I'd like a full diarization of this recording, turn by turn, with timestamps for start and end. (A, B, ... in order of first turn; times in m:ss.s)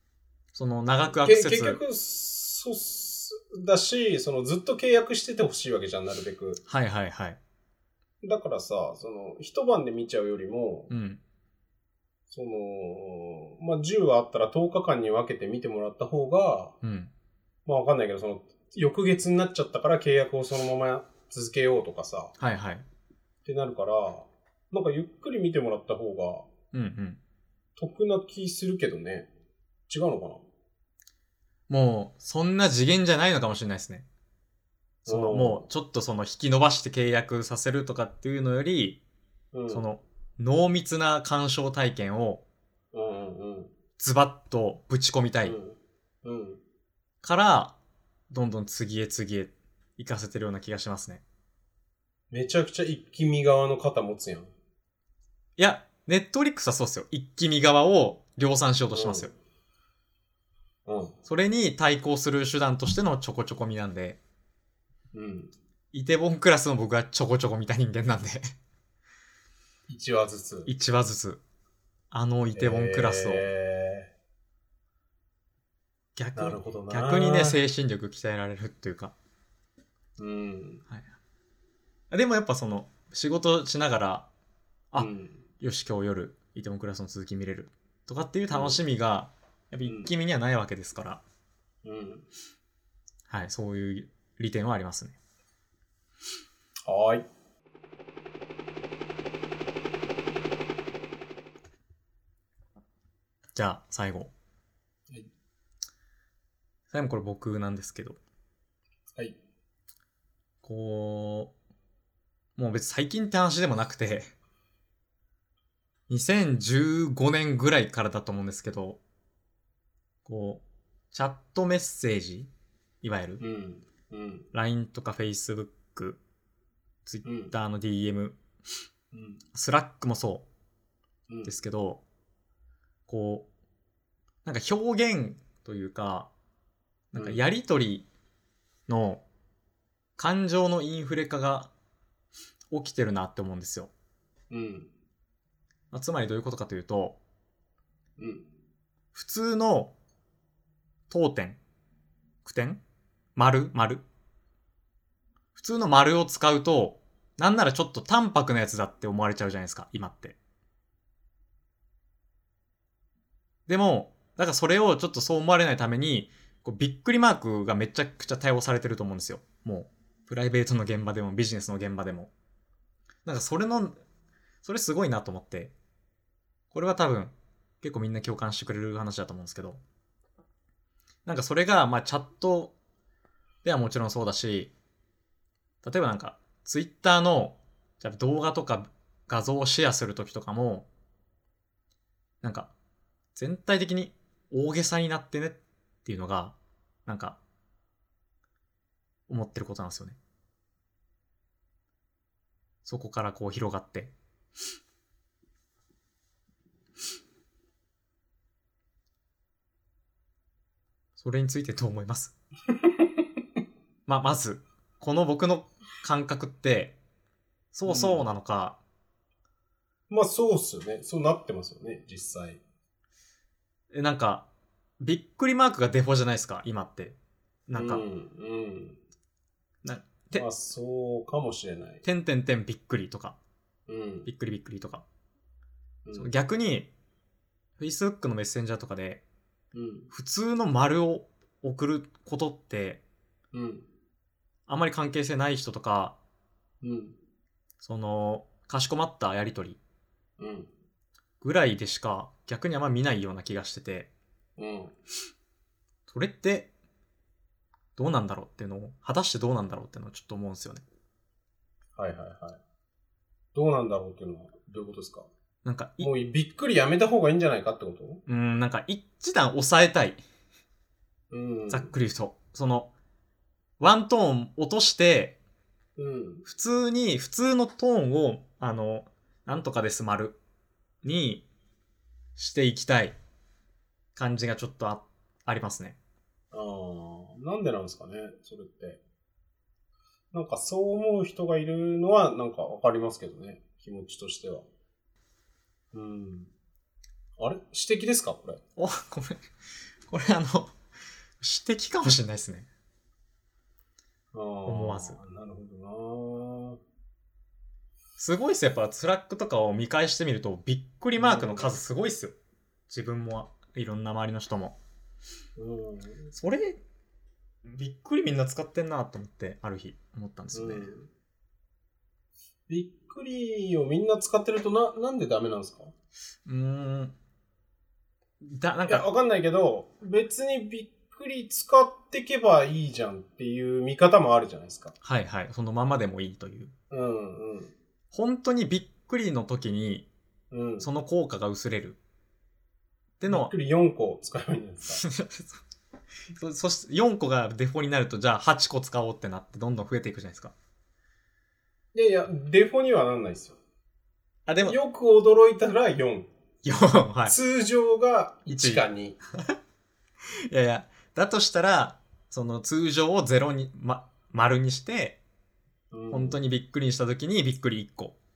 0:00.5-0:01.8 A
0:01.1-0:06.6 B
0:06.7-0:07.4 A
0:08.2-0:10.9 B
0:10.9-0:11.2 A
0:12.3-0:16.7 B
0:16.8-0:17.1 A
0:17.6-0:22.3 B
0:22.4-0:22.8 A
0:23.4-0:26.4 B
0:26.7-0:27.2 A
0:27.8-0:29.3 B
0:29.9-0:30.4 B
0:31.7-0:34.0 A
0:35.0-0:39.0 A
0:35.1-0:35.6 B
0:39.5-0:39.9 B
0:39.7-0:42.4 A
0:42.9-0:43.7 B
0:44.0-0:45.6 A
0:45.4-0:46.6 B
0:47.2-0:47.7 A
0:48.3-0:51.2 A
0:52.3-0:54.5 B
0:55.6-0:59.3 A
0:58.9-0:59.3 B
1:00.9-1:01.1 B
1:01.2-1:04.2 A
1:05.1-1:05.5 B
1:05.9-1:08.4 A
1:09.9-1:10.7 B
1:10.6-1:11.4 A
1:12.1-1:13.4 A
1:12.5-1:14.1 B
1:16.2-1:19.1 A
1:16.4-1:17.6 B
1:20.2-1:20.8 B
1:22.1-1:24.3 A
1:24.9-1:31.2 A
1:25.0-1:25.4 B
1:28.5-1:28.8 B
1:31.8-1:32.3 B
1:33.3-1:35.2 A
1:36.8-1:37.2 B
1:43.5-1:44.3 A
1:46.9-1:48.2 A
1:50.6-1:51.5 A
1:52.6-1:54.3 A
1:56.1-1:59.0 A
2:00.2-2:02.5 A
2:03.0-2:03.4 A
2:03.4-2:04.5 B
2:04.5-2:06.2 A
2:07.0-2:08.4 A
2:07.2-2:07.5 B
2:09.1-2:09.4 B
2:09.5-2:10.4 A
2:11.3-2:11.5 B
2:11.4-2:12.0 A
2:13.1-2:13.5 A
2:14.4-2:16.3 A
2:17.1-2:18.1 A
2:17.1-2:17.4 B
2:18.9-2:19.2 A
2:20.2-2:21.7 A
2:22.7-2:23.9 A
2:24.5-2:24.9 B
2:25.9-2:27.2 A
2:28.2-2:28.5 B
2:29.1-2:29.9 A
2:31.1-2:31.6 A
2:32.4-2:32.8 A
2:33.4-2:34.0 A
2:35.6-2:40.4 A
2:43.7-2:52.3 A
2:53.2-2:54.0 A
2:54.6-2:55.7 A
2:56.7-2:59.8 A
3:01.2-3:02.7 A
3:03.6-3:04.7 A
3:05.8-3:10.9 A
3:12.4-3:12.7 A
3:13.3-3:16.5 A
3:17.0-3:17.4 A
3:19.3-3:20.2 A
3:22.8-3:24.1 A
3:31.2-3:32.3 A
3:32.7-3:33.2 B
3:34.1-3:37.0 A
3:37.7-3:38.8 A
3:37.8-3:38.2 B
3:40.1-3:42.6 B
3:43.9-3:44.4 A
3:45.0-3:47.2 A
3:47.7-3:48.0 A
3:47.7-3:49.0 B
3:49.8-3:50.4 A
3:50.3-3:52.0 B
3:52.0-3:53.4 A
3:53.9-3:54.3 B
3:54.2-3:55.0 A
3:56.0-3:56.3 B
3:56.1-3:56.9 A
3:57.8-3:59.2 A
3:59.7-4:00.1 B
4:00.1-4:03.0 A
4:03.5-4:03.9 B
4:04.7-4:06.2 A
4:06.8-4:07.2 B
4:07.8-4:09.8 A
4:10.4-4:10.7 B
4:11.4-4:14.1 A
4:14.6-4:14.9 B
4:16.1-4:16.7 A
4:18.0-4:20.8 A
4:22.0-4:22.6 B
4:23.5-4:25.3 B
4:25.6-4:26.1 A
4:26.0-4:28.2 B
4:28.3-4:30.2 A
4:31.3-4:31.9 B
4:31.7-4:32.9 A
4:33.8-4:35.4 A
4:36.0-4:36.4 B
4:36.4-4:40.4 A
4:41.0-4:41.4 A
4:42.4-4:43.2 A
4:44.2-4:46.0 A
4:46.5-4:49.0 B
4:50.3-4:54.7 B
4:55.9-4:56.5 B
4:57.4-4:58.6 B
4:58.8-4:59.4 A
5:00.1-5:00.7 A
5:01.4-5:02.7 A
5:04.3-5:06.8 B
5:04.7-5:05.2 A
5:08.2-5:12.3 A
5:11.2-5:11.7 B
5:12.9-5:14.8 A
5:15.6-5:16.3 B
5:16.3-5:16.8 A
5:17.6-5:20.9 A
5:20.5-5:21.1 B
5:22.7-5:25.9 B
5:26.4-5:27.1 A
5:28.4-5:29.1 A
5:28.8-5:34.9 B
5:35.0-5:36.7 A
5:36.9-5:37.7 B
5:38.1-5:40.1 A
5:40.5-5:40.9 B
5:40.8-5:42.0 A
5:43.2-5:43.5 A
5:43.3-5:45.0 B
5:45.0-5:45.6 A
5:46.3-5:50.5 A
5:51.9-5:53.6 B
5:54.5-5:54.8 A
5:54.6-5:56.3 B
5:56.6-5:57.4 A
5:57.3-5:59.2 B
5:58.5-5:58.8 A
6:00.5-6:05.2 A
6:05.9-6:06.4 B
6:06.1-6:08.1 A